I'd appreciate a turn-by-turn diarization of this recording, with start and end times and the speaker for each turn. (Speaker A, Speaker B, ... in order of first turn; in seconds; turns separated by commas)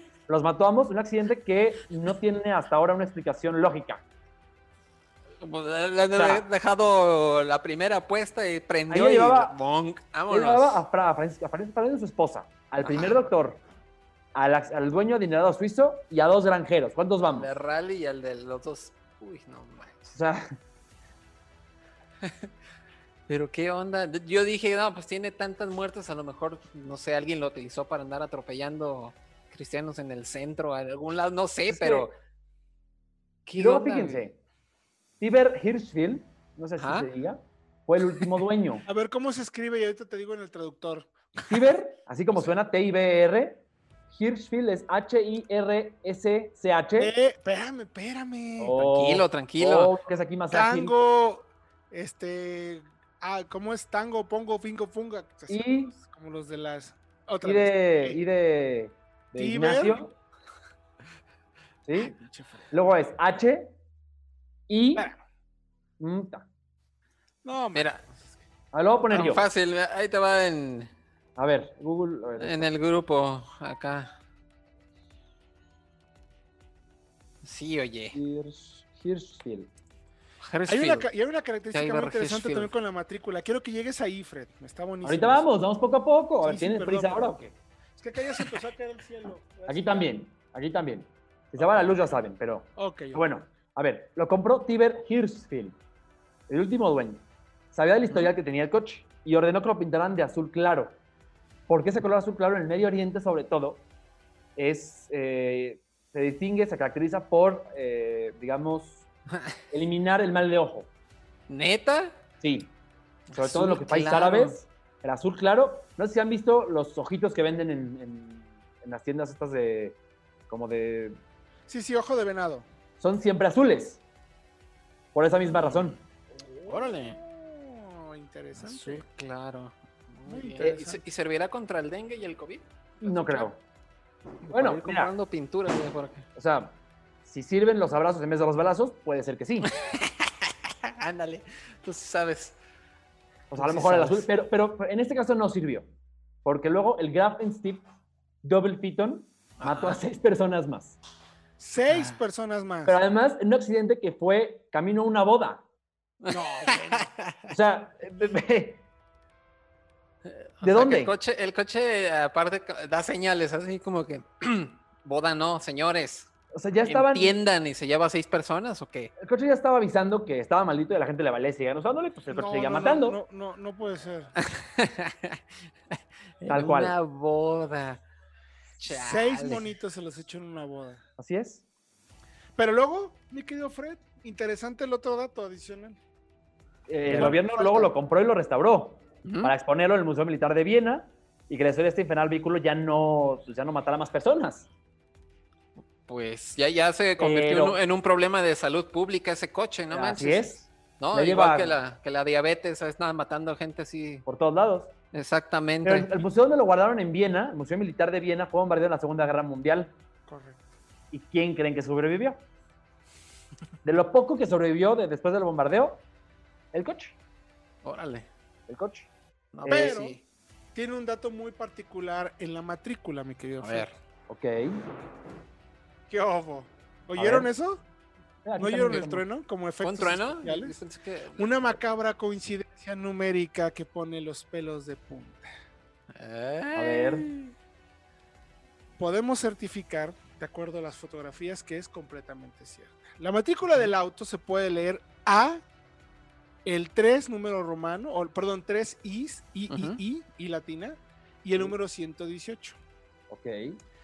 Speaker A: 0.3-4.0, Speaker B: 5.4-10.8, Speaker A: 6.1-6.4, Speaker A: 8.9-9.5, Speaker A: 10.3-13.6, Speaker B: 12.8-13.1, Speaker A: 14.3-17.5, Speaker B: 17.3-20.1, Speaker A: 20.1-20.5, Speaker B: 22.2-22.5, Speaker B: 23.3-32.1, Speaker A: 31.7-32.1, Speaker B: 33.5-34.3, Speaker A: 33.5-34.4, Speaker A: 35.2-38.8, Speaker B: 36.8-37.1, Speaker C: 38.9-41.7, Speaker A: 41.5-47.1, Speaker C: 47.0-48.8, Speaker A: 48.6-50.9, Speaker B: 48.8-49.9, Speaker C: 50.5-58.2, Speaker A: 55.5-55.9, Speaker A: 57.4-60.1, Speaker C: 59.4-60.0, Speaker A: 61.9-62.1, Speaker C: 61.9-62.7, Speaker A: 62.7-63.7, Speaker A: 64.7-65.1, Speaker A: 66.0-66.5, Speaker C: 67.4-68.4, Speaker B: 67.7-68.0, Speaker A: 68.7-69.4, Speaker B: 69.1-70.9, Speaker A: 71.4-72.7, Speaker B: 72.4-74.1, Speaker B: 77.4-78.2, Speaker A: 78.1-79.7, Speaker B: 80.4-81.1, Speaker C: 80.7-85.5, Speaker B: 81.7-82.7, Speaker A: 85.0-87.5, Speaker C: 86.4-87.4, Speaker C: 88.0-90.1, Speaker A: 89.7-95.8, Speaker C: 92.8-93.2, Speaker A: 96.5-100.9, Speaker A: 101.7-103.8, Speaker A: 104.5-109.0, Speaker A: 109.7-110.9, Speaker B: 111.5-112.2, Speaker A: 112.4-112.7, Speaker B: 113.3-114.6, Speaker A: 113.3-120.0, Speaker A: 120.5-121.2, Speaker C: 121.7-122.7, Speaker A: 123.0-124.0, Speaker A: 125.1-126.0, Speaker B: 125.5-126.0, Speaker C: 126.4-129.0, Speaker B: 126.7-127.2, Speaker B: 128.6-133.4, Speaker C: 130.3-131.0, Speaker A: 133.0-133.6, Speaker B: 134.4-136.2, Speaker A: 134.5-135.1, Speaker A: 136.3-139.7, Speaker B: 139.8-142.6, Speaker A: 143.5-145.9, Speaker B: 143.6-144.2, Speaker A: 146.4-147.8, Speaker A: 148.4-150.9, Speaker B: 149.6-150.0, Speaker C: 151.6-153.0, Speaker B: 151.9-152.2, Speaker A: 152.8-155.6, Speaker B: 156.2-157.5, Speaker C: 156.3-157.1, Speaker A: 157.5-158.8, Speaker B: 160.2-166.3, Speaker A: 160.6-161.1, Speaker A: 166.5-167.4, Speaker B: 166.8-169.1, Speaker A: 169.2-173.2, Speaker C: 172.3-174.3, Speaker B: 174.4-175.4, Speaker B: 176.4-178.0, Speaker A: 176.5-176.9, Speaker B: 178.8-179.7, Speaker C: 178.8-181.0, Speaker A: 181.2-181.6, Speaker C: 182.6-186.0, Speaker A: 186.9-194.7, Speaker C: 187.1-187.9, Speaker B: 189.2-189.5, Speaker B: 196.1-204.2, Speaker A: 197.2-197.8, Speaker A: 199.9-200.6, Speaker A: 201.1-201.8, Speaker A: 204.2-204.9, Speaker B: 205.1-206.2, Speaker A: 205.8-209.9, Speaker C: 210.3-210.6, Speaker A: 211.1-212.4, Speaker A: 213.8-216.0, Speaker A: 216.7-217.2, Speaker B: 217.8-218.3, Speaker A: 218.7-219.1, Speaker B: 219.5-220.2, Speaker A: 219.6-220.0, Speaker C: 219.7-220.2, Speaker C: 220.7-223.9, Speaker B: 223.6-223.9, Speaker A: 224.3-224.8, Speaker C: 226.1-227.8, Speaker A: 227.1-227.5, Speaker A: 228.4-229.2, Speaker C: 228.6-230.7, Speaker B: 229.8-231.7, Speaker C: 231.4-235.5, Speaker B: 236.1-237.5, Speaker A: 236.7-237.2, Speaker C: 239.0-245.6, Speaker C: 246.6-252.8, Speaker B: 249.7-250.0, Speaker A: 253.3-253.8